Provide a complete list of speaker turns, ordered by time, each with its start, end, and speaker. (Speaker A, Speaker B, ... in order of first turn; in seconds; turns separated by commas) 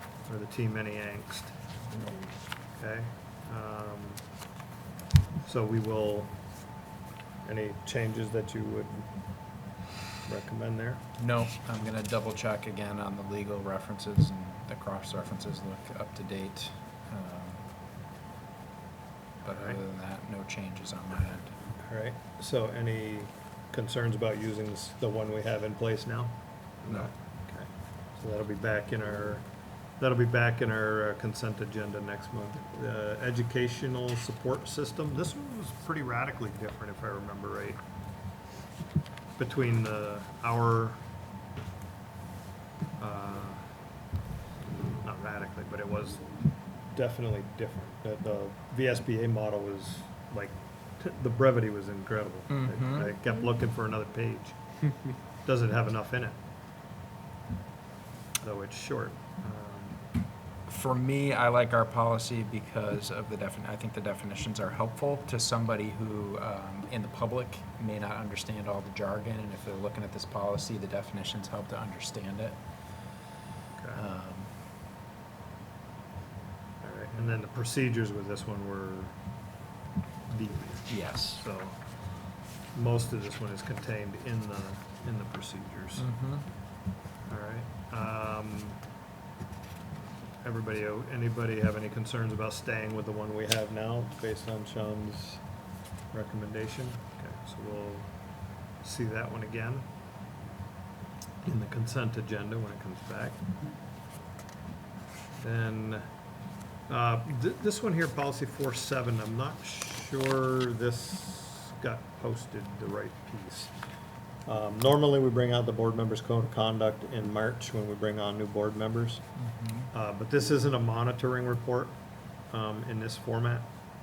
Speaker A: 0.3-1.5, Speaker A: 2.8-4.2, Speaker A: 5.5-6.3, Speaker A: 7.5-9.1, Speaker A: 10.3-11.0, Speaker B: 11.2-17.6, Speaker B: 19.4-21.5, Speaker A: 19.5-19.8, Speaker A: 21.8-37.8, Speaker A: 39.4-41.0, Speaker A: 43.0-43.6, Speaker A: 45.0-46.3, Speaker A: 46.9-54.5, Speaker B: 52.5-53.1, Speaker A: 55.5-56.4, Speaker A: 58.4-60.0, Speaker B: 60.7-72.6, Speaker A: 73.8-74.1, Speaker B: 74.0-74.5, Speaker A: 76.8-79.2, Speaker A: 80.3-81.9, Speaker B: 80.9-81.4, Speaker A: 82.7-86.1, Speaker B: 86.0-86.5, Speaker A: 87.3-88.8, Speaker A: 90.4-95.4, Speaker A: 96.1-98.2, Speaker A: 98.8-99.9, Speaker A: 101.4-103.4, Speaker A: 105.4-106.0, Speaker A: 106.9-113.7, Speaker A: 114.5-119.2, Speaker B: 119.4-119.9, Speaker A: 119.9-122.0, Speaker A: 122.5-123.7